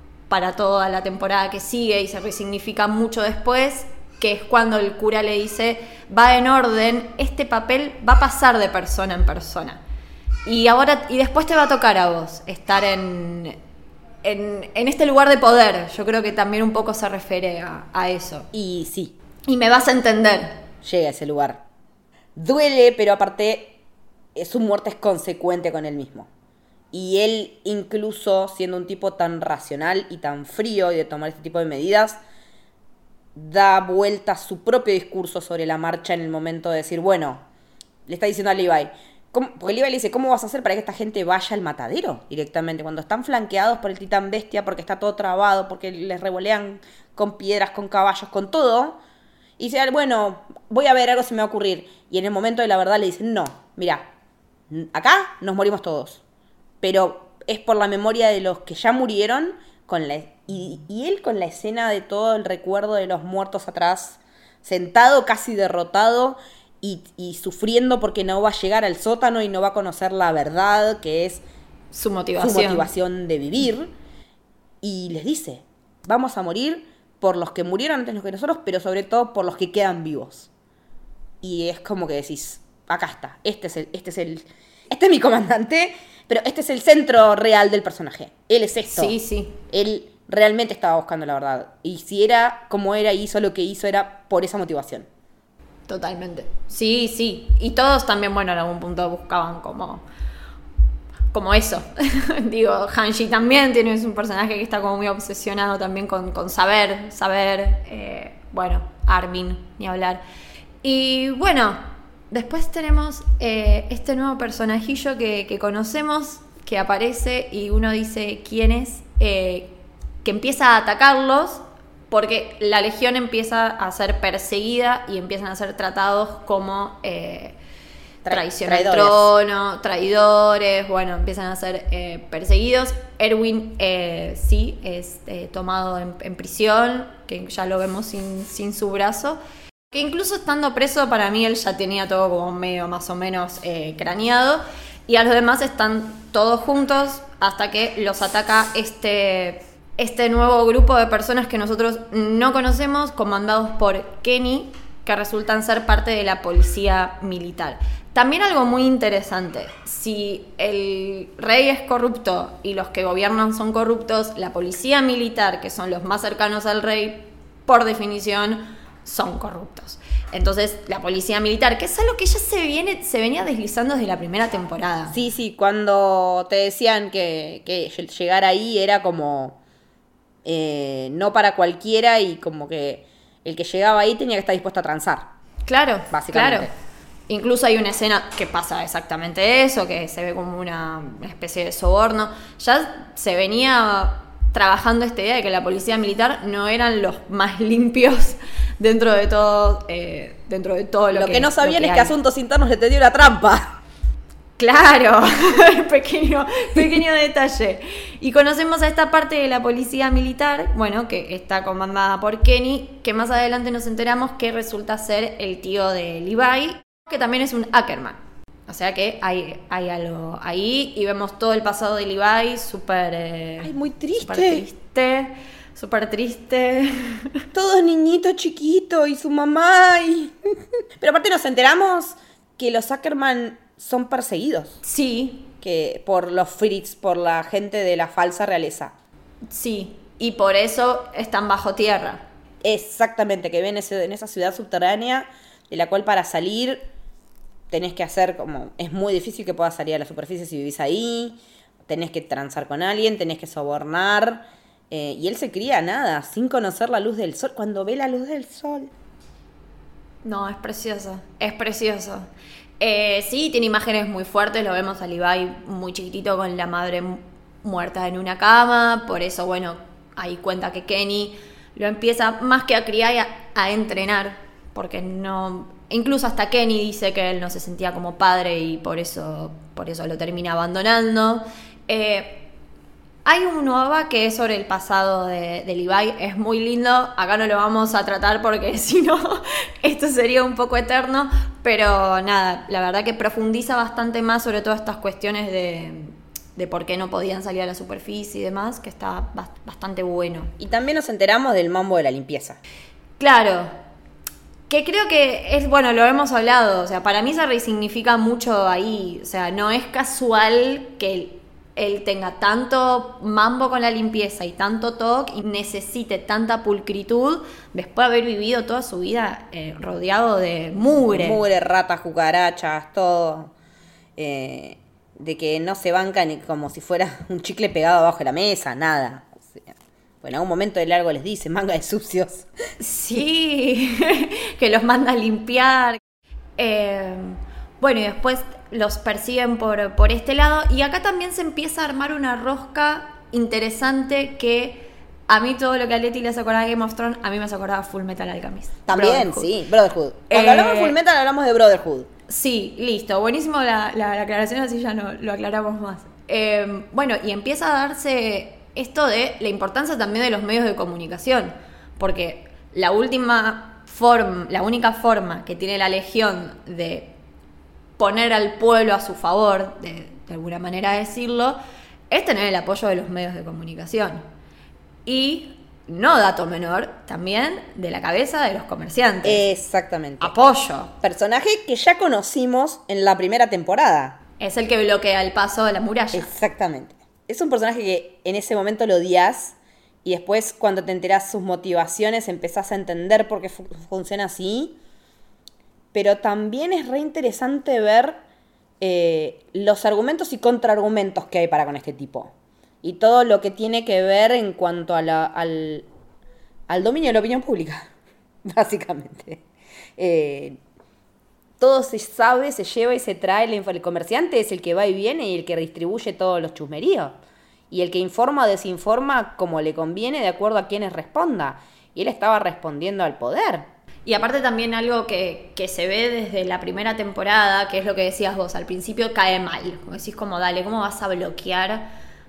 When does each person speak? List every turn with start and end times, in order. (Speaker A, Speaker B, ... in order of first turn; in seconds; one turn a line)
Speaker A: 0.3-9.8
Speaker A: 10.4-13.6
Speaker A: 14.2-18.5
Speaker B: 18.5-19.1
Speaker A: 19.5-20.6
Speaker B: 20.8-21.6
Speaker B: 22.4-23.8
Speaker B: 24.4-26.3
Speaker B: 26.9-32.2
Speaker B: 33.3-37.4
Speaker B: 38.1-49.0
Speaker B: 49.6-54.0
Speaker B: 54.7-56.2
Speaker B: 56.8-71.4
Speaker A: 71.9-72.9
Speaker B: 72.4-73.9
Speaker B: 74.8-80.5
Speaker B: 81.4-89.2
Speaker A: 88.9-89.6
Speaker B: 89.7-95.1
Speaker A: 95.9-100.0
Speaker A: 101.3-110.2
Speaker A: 110.8-127.5
Speaker B: 128.2-129.3
Speaker A: 128.3-139.4
Speaker A: 139.9-175.2
Speaker B: 175.1-179.6
Speaker B: 180.4-185.3
Speaker A: 185.7-186.7
Speaker B: 186.1-186.7
Speaker A: 187.3-202.1
Speaker B: 201.1-203.8
Speaker A: 204.6-227.4
Speaker B: 223.6-224.6
Speaker B: 227.5-230.3
Speaker B: 231.0-234.8
Speaker A: 234.8-235.5
Speaker B: 235.6-238.9
Speaker A: 239.5-242.2
Speaker B: 242.6-246.8
Speaker B: 247.7-258.9
Speaker A: 260.2-262.3
Speaker A: 262.8-282.5
Speaker A: 283.2-300.5
Speaker B: 300.6-302.6
Speaker A: 303.2-303.7
Speaker A: 304.7-321.4
Speaker B: 321.1-323.5
Speaker B: 324.2-332.5
Speaker A: 332.8-336.0
Speaker A: 336.6-349.5
Speaker B: 348.9-352.1
Speaker A: 350.3-350.9
Speaker A: 352.3-367.1
Speaker A: 368.0-371.6
Speaker A: 372.1-374.2
Speaker A: 375.1-379.4
Speaker B: 379.2-380.3
Speaker A: 380.2-380.9
Speaker B: 381.0-384.2
Speaker A: 384.4-386.3
Speaker B: 386.1-394.8
Speaker B: 395.9-398.2
Speaker B: 398.8-402.3
Speaker B: 402.8-405.9
Speaker B: 406.7-407.9
Speaker B: 408.4-409.4
Speaker B: 410.0-410.6
Speaker B: 411.6-417.1
Speaker B: 417.7-423.7
Speaker A: 424.1-431.9